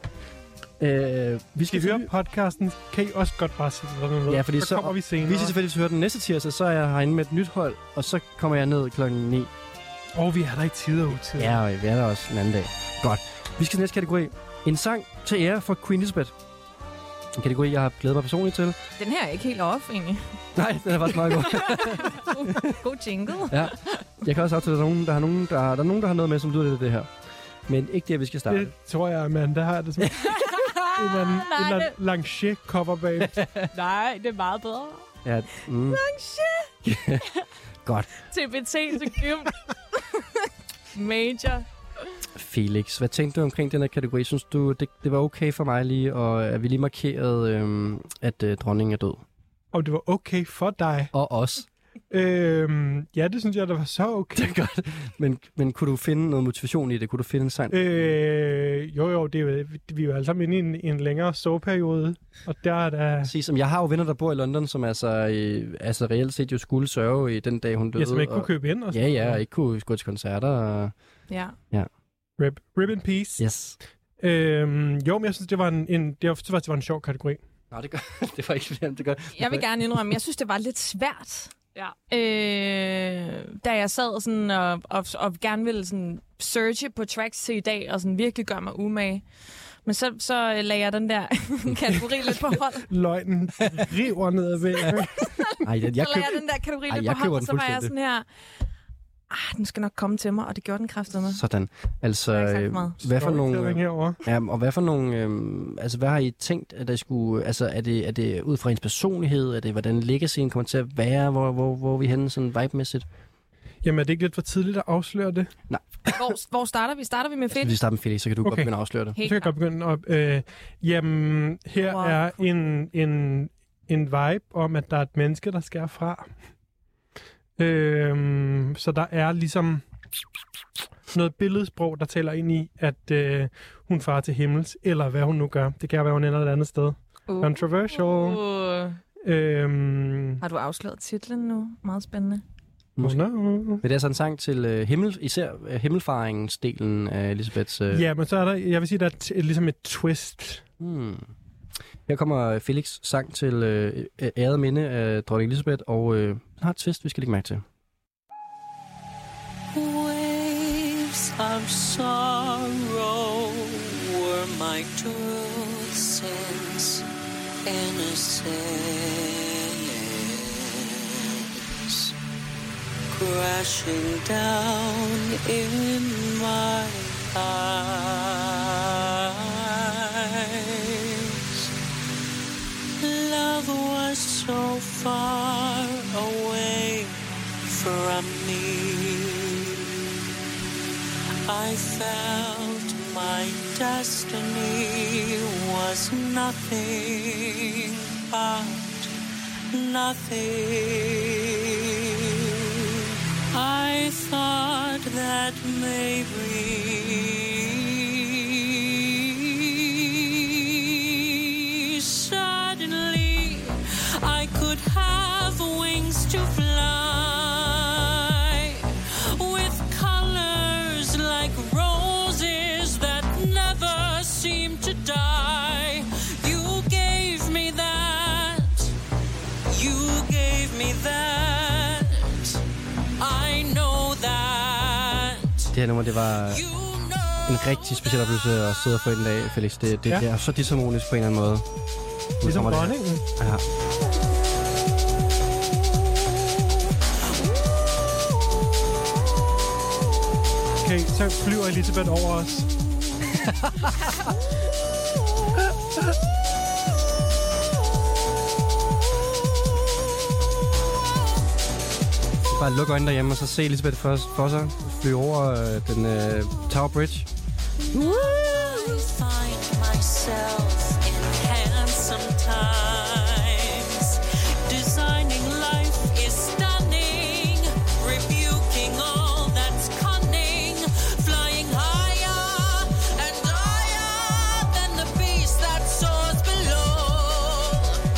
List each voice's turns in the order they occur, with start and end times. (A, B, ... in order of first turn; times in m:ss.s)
0:00.8-0:02.1 A
0:01.7-0:05.6 B
0:04.3-0:09.5 A
0:10.2-0:11.6 B
0:11.1-0:16.3 A
0:17.4-0:18.8 A
0:19.0-0:20.4 C
0:20.6-0:22.7 A
0:21.4-0:23.6 C
0:23.5-0:27.1 A
0:27.7-0:28.7 A
0:28.5-0:30.4 B
0:30.0-0:30.3 A
0:30.4-0:31.5 D
0:30.9-0:33.4 B
0:31.3-0:31.9 C
0:33.2-0:33.7 A
0:33.7-0:35.0 D
0:35.2-0:36.0 A
0:35.9-0:36.7 C
0:36.8-0:37.3 A
0:37.8-0:38.1 A
0:38.3-0:41.6 C
0:42.4-0:49.2 A
0:49.7-0:51.1 B
0:51.1-0:51.7 A
0:52.1-0:54.5 B
0:54.4-0:58.1 A
0:57.7-1:03.3 B
1:03.2-1:10.9 A
1:08.0-1:09.4 B
1:11.3-1:11.6 C
1:12.4-1:13.4 B
1:13.4-1:13.8 A
1:14.2-1:17.4 B
1:17.7-1:20.0 A
1:19.4-1:21.5 C
1:22.1-1:29.2 C
1:29.8-1:32.9 C
1:32.8-1:35.5 B
1:35.6-1:37.9 A
1:35.9-1:38.3 C
1:39.3-1:41.4 C
1:41.2-1:53.1 A
1:42.3-1:43.0 C
1:43.0-1:44.2 B
1:53.8-1:55.5 B
1:55.7-1:56.2 A
1:56.1-1:57.8 C
1:57.6-1:59.2 A
1:58.4-2:06.3 B
1:59.1-1:59.5 C
2:01.8-2:02.4 C
2:07.6-2:09.8 B
2:11.1-2:18.4 B
2:17.3-2:19.0 C
2:19.2-2:20.4 B
2:20.4-2:22.4 C
2:23.0-2:23.2 A
2:23.0-2:23.8 B
2:23.8-2:28.1 A
2:27.9-2:30.6 B
2:30.8-2:31.3 A
2:32.1-2:37.6 A
2:39.7-2:47.0 E
2:47.6-2:52.2 E
2:53.1-3:01.7 E
3:03.0-3:09.9 E
3:11.5-3:19.1 E
3:19.7-3:22.6 E
3:23.5-3:48.9 E
3:49.7-3:52.6 E
3:53.2-3:55.7 E
3:55.7-3:56.6 A
3:56.4-3:58.1 E
3:57.4-4:01.6 A
4:02.4-4:03.6 A
4:02.4-4:03.2 B
4:10.8-4:12.7 B
4:22.5-4:27.3 A
4:27.9-4:48.0 E
4:28.0-4:28.2 A